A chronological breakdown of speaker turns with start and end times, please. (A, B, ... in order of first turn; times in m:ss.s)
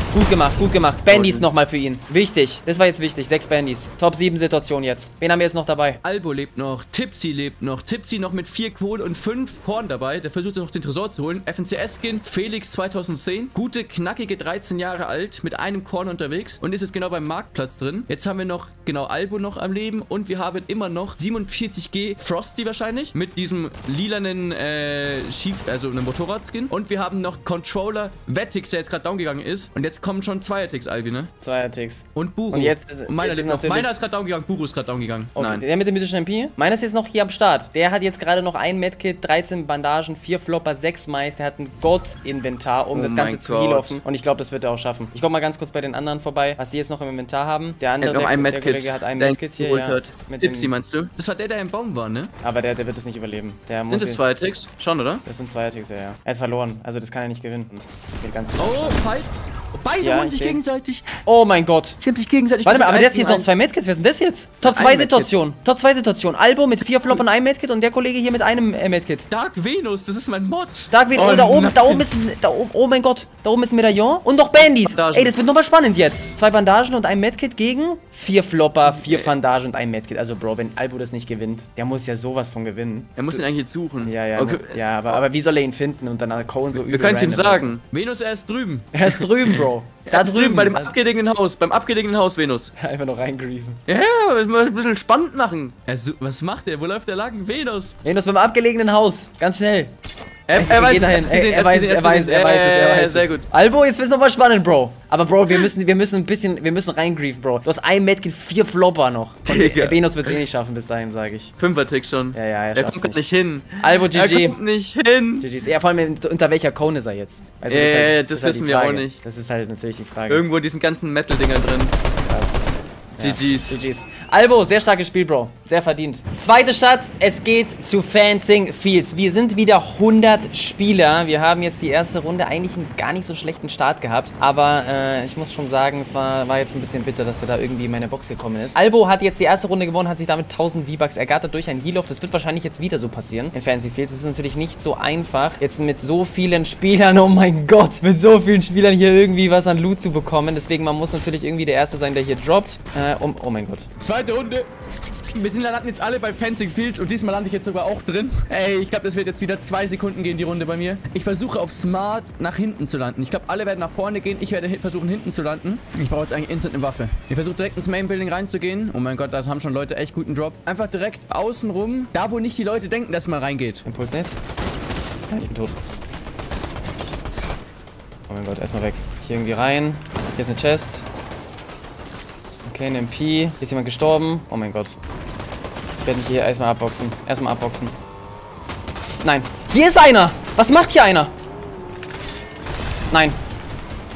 0:00.1-0:06.0 A
0:01.1-0:01.5 B
0:06.0-0:31.3 B
0:31.4-0:33.9 A
0:32.1-0:35.6 B
0:35.4-0:50.7 A
0:42.9-0:44.0 B
0:48.0-0:52.3 B
0:52.4-0:54.2 A
0:53.9-0:55.2 B
0:55.2-0:59.0 A
0:58.6-1:01.2 B
1:00.0-1:00.6 A
1:01.2-1:02.0 A
1:02.0-1:03.5 B
1:02.6-1:09.3 A
1:04.6-1:05.3 B
1:09.3-1:12.0 B
1:10.9-1:23.4 A
1:14.6-1:15.4 B
1:18.9-1:19.3 B
1:23.2-1:25.2 B
1:24.0-1:27.7 A
1:26.7-1:32.7 B
1:28.9-1:30.9 A
1:32.8-1:33.8 A
1:33.9-1:38.0 B
1:38.0-1:39.9 A
1:40.5-1:43.4 B
1:40.6-1:51.5 A
1:49.4-1:50.4 B
1:51.6-1:55.5 B
1:52.3-1:53.2 A
1:53.8-1:54.6 A
1:55.4-2:00.4 A
1:57.7-1:59.2 B
2:00.3-2:01.9 B
2:02.3-2:02.6 A
2:03.2-2:33.9 A
2:03.2-2:03.8 B
2:34.0-2:34.7 B
2:35.2-2:53.8 B
2:53.8-2:54.4 A
2:55.3-2:55.8 A
2:58.3-3:01.0 A
3:02.6-3:05.0 A
3:06.0-3:07.9 A
3:09.1-3:11.3 A
3:13.1-3:13.4 A